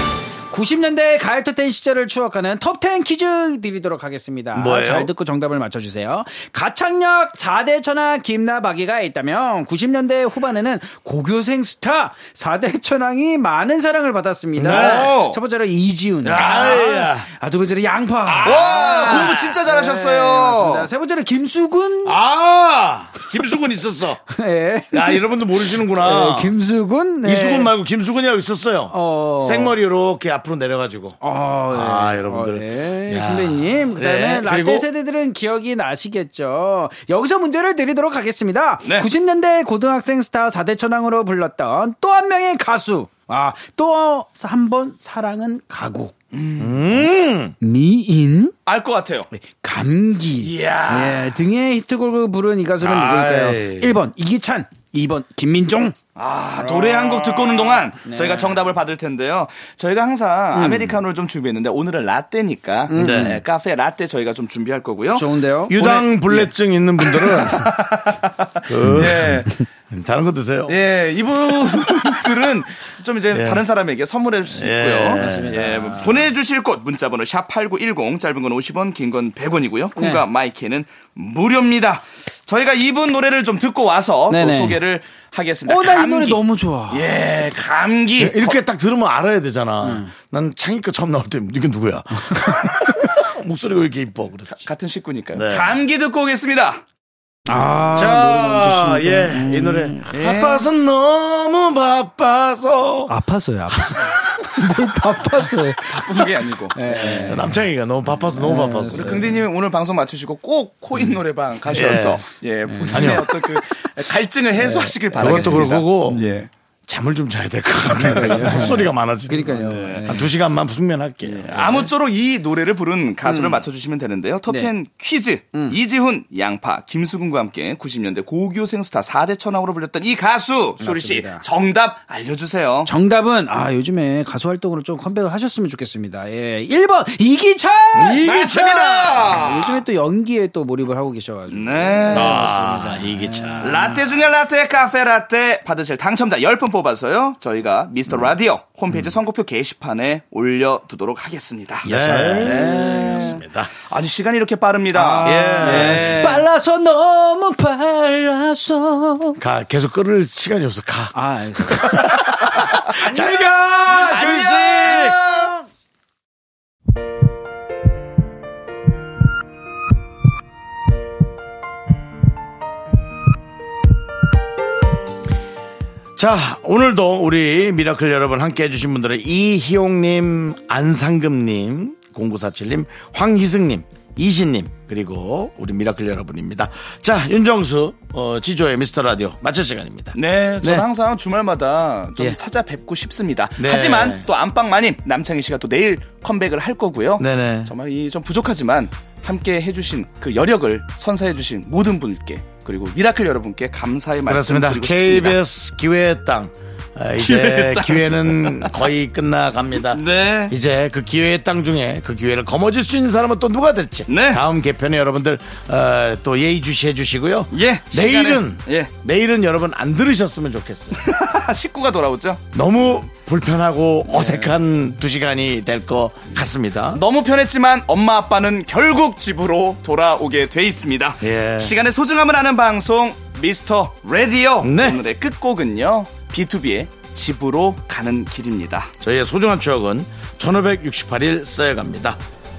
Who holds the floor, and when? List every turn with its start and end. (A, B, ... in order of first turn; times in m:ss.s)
0:00.5-0:22.2 A
0:04.5-0:05.1 B
0:14.6-0:15.2 B
0:14.6-0:15.4 C
0:16.2-0:16.9 C
0:16.3-0:17.3 B
0:18.3-0:19.6 B
0:18.4-0:20.9 C
0:22.0-0:24.2 B
0:24.3-0:27.7 A
0:24.9-0:26.5 B
0:27.2-0:31.2 B
0:28.9-0:29.8 A
0:31.2-0:46.2 A
0:31.7-0:34.9 B
0:38.8-0:39.1 C
0:46.3-0:46.9 C
0:46.6-0:47.6 B
0:47.6-0:48.6 A
0:48.7-0:49.3 C
0:49.3-0:56.0 A
0:50.4-0:51.4 C
0:52.8-0:53.9 B
0:56.2-1:06.5 C
0:56.6-0:58.6 A
1:00.5-1:01.0 A
1:02.9-1:03.4 A
1:03.0-1:03.4 B
1:05.1-1:05.9 A
1:05.7-1:07.7 B
1:07.1-1:08.2 C
1:08.6-1:10.8 B
1:08.8-1:09.6 C
1:10.7-1:28.6 C
1:13.3-1:13.6 B
1:14.5-1:15.9 B
1:15.2-1:16.2 A
1:20.0-1:20.3 A
1:24.3-1:24.8 A
1:25.7-1:27.1 A
1:28.2-1:34.6 B
1:29.8-1:30.1 A
1:32.3-1:32.6 A
1:34.6-1:36.8 C
1:35.3-1:35.8 B
1:37.5-1:40.5 A
1:37.9-1:43.1 B
1:40.1-1:40.6 C
1:43.1-1:47.6 A
1:45.9-1:47.4 C
1:46.9-1:49.4 B
1:48.3-1:49.4 A
1:48.9-1:56.5 C
1:51.7-1:52.2 B
1:52.7-1:53.2 A
1:52.9-1:53.4 B
1:54.6-1:56.2 B
1:55.2-1:56.5 A
1:56.9-2:01.9 B
1:58.1-2:00.3 A
1:58.1-2:00.2 C
2:01.2-2:12.9 C
2:03.2-2:03.6 A
2:04.5-2:04.7 A
2:05.5-2:05.8 A
2:10.8-2:11.4 A
2:12.9-2:18.3 A
2:18.0-2:19.6 B
2:18.2-2:19.7 C
2:19.3-2:24.0 A
2:21.5-2:22.5 C
2:22.1-2:23.8 B
2:23.6-2:36.2 C
2:31.8-2:33.4 A
2:31.9-2:33.7 B
2:34.9-2:39.4 A
2:35.2-2:36.4 B
2:39.4-2:41.2 B
2:41.1-2:42.1 A
2:41.7-2:45.2 B
2:42.5-2:42.9 C
2:43.0-2:43.5 A
2:43.9-2:45.4 C
2:44.1-2:44.4 A
2:56.2-3:10.8 B
3:10.1-3:25.4 C
3:13.6-3:14.2 B
3:17.2-3:17.7 B
3:24.3-3:41.0 B
3:27.2-3:28.8 C
3:29.9-3:30.5 C
3:34.1-3:34.4 C
3:37.5-3:38.9 C
3:41.0-3:42.4 C
3:42.5-3:47.0 B
3:44.1-3:44.5 C
3:46.9-3:58.9 C
3:51.2-3:51.8 B
3:54.6-3:55.0 B
3:59.0-4:02.2 B